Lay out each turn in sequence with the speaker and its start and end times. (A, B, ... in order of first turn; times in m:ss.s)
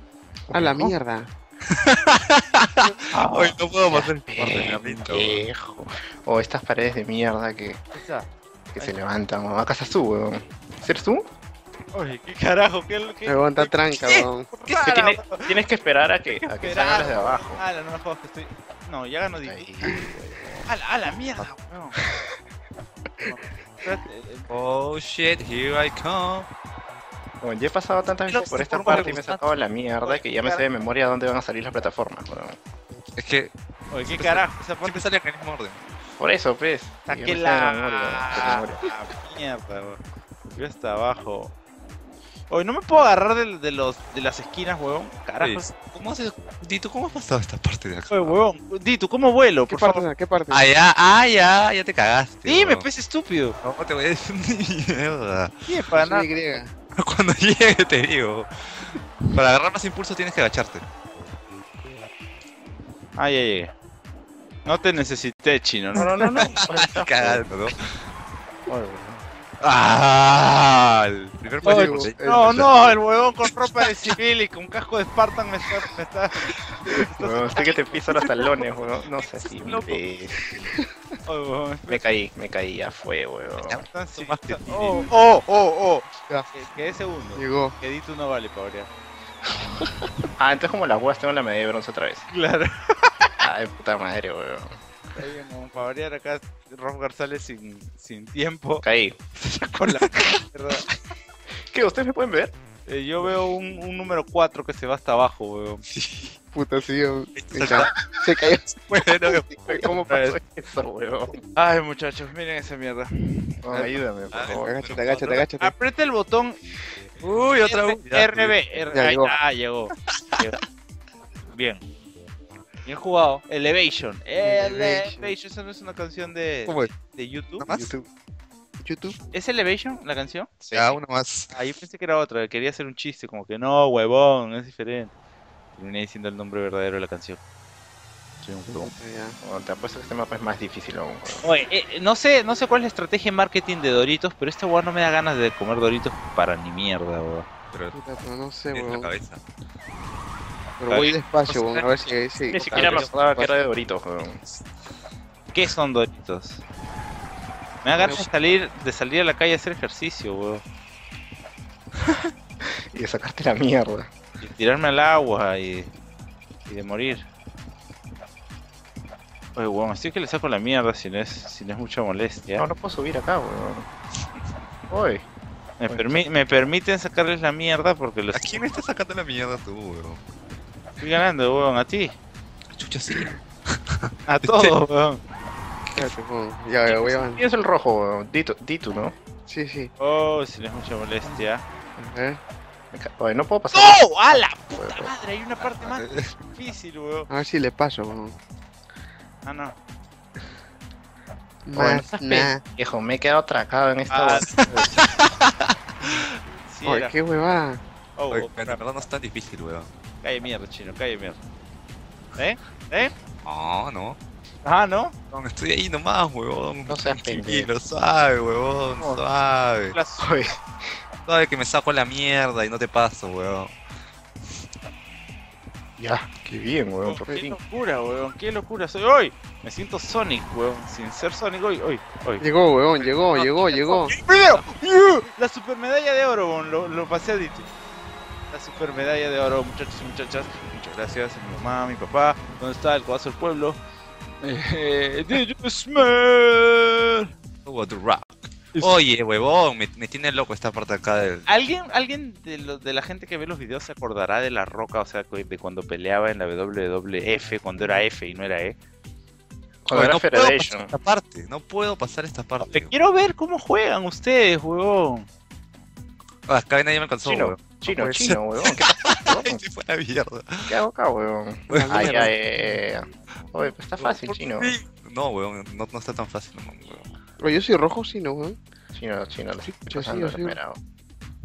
0:00.5-0:00.9 A
0:00.5-0:01.3 B
0:01.8-0:05.4 C
0:02.8-0:03.6 D
0:03.9-0:07.8 A
0:07.9-0:08.9 D
0:08.8-0:11.2 A
0:11.9-0:15.6 D
0:13.3-0:14.5 B
0:14.8-0:17.6 A
0:16.3-0:19.7 D
0:19.4-0:20.6 A
0:20.7-0:22.0 D
0:23.2-0:24.5 D
0:24.5-0:26.5 C
0:27.4-0:32.6 A
0:28.3-0:29.4 D
0:28.6-0:29.3 C
0:30.0-0:30.6 D
0:33.2-0:33.5 C
0:33.9-0:35.1 D
0:34.1-0:35.8 C
0:36.2-0:38.8 A
0:37.1-0:40.0 D
0:40.5-0:41.6 D
0:42.5-0:45.7 D
0:45.4-0:48.4 C
0:48.1-0:50.0 D
0:49.7-0:50.7 B
0:50.5-0:52.9 C
0:52.4-0:53.6 D
0:53.6-0:55.5 C
0:55.7-0:56.3 D
0:56.0-0:56.7 B
0:57.0-0:58.5 C
0:59.3-1:00.8 C
1:03.2-1:03.7 D
1:04.6-1:06.4 D
1:06.0-1:07.5 A
1:06.6-1:07.8 C
1:08.7-1:09.2 A
1:09.6-1:13.0 C
1:11.6-1:12.4 B
1:11.6-1:18.0 D
1:17.2-1:20.4 A
1:19.7-1:19.9 C
1:20.5-1:20.9 B
1:21.3-1:22.0 D
1:21.9-1:23.8 A
1:23.6-1:25.1 C
1:23.8-1:28.9 D
1:27.4-1:27.8 B
1:30.4-1:32.3 A
1:32.3-1:33.4 D
1:33.4-1:34.8 A
1:35.2-1:40.9 D
1:38.8-1:39.2 A
1:41.7-1:42.5 A
1:42.9-1:45.8 D
1:45.9-1:46.3 C
1:46.5-1:48.7 B
1:47.4-1:47.9 C
1:48.7-1:49.4 C
1:49.0-1:49.3 D
1:49.6-1:49.9 B
1:49.7-1:51.4 A
1:50.1-1:50.4 D
1:51.5-1:56.6 D
1:53.6-1:54.7 A
1:54.6-1:55.7 B
1:57.2-1:58.6 C
1:57.7-2:00.6 D
1:58.9-1:59.4 B
2:00.1-2:00.5 C
2:01.5-2:01.8 D
2:02.8-2:07.6 D
2:04.4-2:05.3 B
2:07.6-2:07.9 C
2:07.7-2:08.1 B
2:08.8-2:09.2 B
2:09.3-2:10.6 D
2:10.7-2:11.0 A
2:10.7-2:11.5 C
2:11.5-2:15.1 D
2:15.8-2:17.4 D
2:18.4-2:18.9 D
2:18.7-2:19.4 B
2:19.4-2:21.4 A
2:21.4-2:27.5 D
2:27.9-2:29.1 B
2:28.7-2:29.4 C
2:30.8-2:33.5 B
2:30.9-2:33.2 C
2:32.5-2:34.4 A
2:35.5-2:36.6 D
2:37.8-2:40.6 D
2:38.0-2:38.3 B
2:42.9-2:44.1 A
2:44.4-2:45.9 D
2:46.7-2:47.3 D
2:49.6-2:52.6 D
2:52.6-2:53.9 A
2:54.9-2:55.2 A
2:55.8-2:58.8 D
2:58.3-3:00.2 C
3:01.0-3:02.2 D
3:02.7-3:04.8 C
3:04.3-3:05.2 D
3:06.0-3:07.4 B
3:06.9-3:09.1 A
3:09.5-3:09.9 B
3:10.0-3:11.6 D
3:12.0-3:12.4 B
3:12.9-3:15.1 A
3:13.7-3:17.3 D
3:15.8-3:16.3 C
3:17.3-3:18.4 B
3:19.4-3:19.8 D
3:21.7-3:22.6 B
3:21.7-3:24.6 A
3:24.1-3:24.9 D
3:24.6-3:26.2 C
3:26.7-3:27.1 D
3:26.8-3:27.8 B
3:28.2-3:28.8 D
3:28.3-3:29.9 C
3:30.2-3:31.4 D
3:32.4-3:33.1 D
3:33.4-3:34.2 C
3:34.6-3:35.1 D
3:35.3-3:40.0 C
3:36.9-3:37.7 A
3:39.0-3:39.2 D
3:39.9-3:40.3 D
3:40.2-3:40.5 A
3:41.3-3:43.7 C
3:46.0-3:47.6 A
3:47.0-3:57.7 D
3:52.4-3:54.2 B
3:58.5-4:03.8 D
4:04.4-4:07.3 D
4:07.7-4:11.5 C
4:11.5-4:18.8 D
4:19.8-4:20.9 A
4:19.9-4:23.0 C
4:22.7-4:25.3 D
4:26.5-4:30.7 C
4:27.2-4:29.6 A
4:30.7-4:34.8 A
4:31.7-4:32.8 B
4:31.7-4:32.3 C
4:34.0-4:37.1 C
4:37.4-4:38.6 B
4:38.9-4:40.8 A
4:39.8-4:40.6 B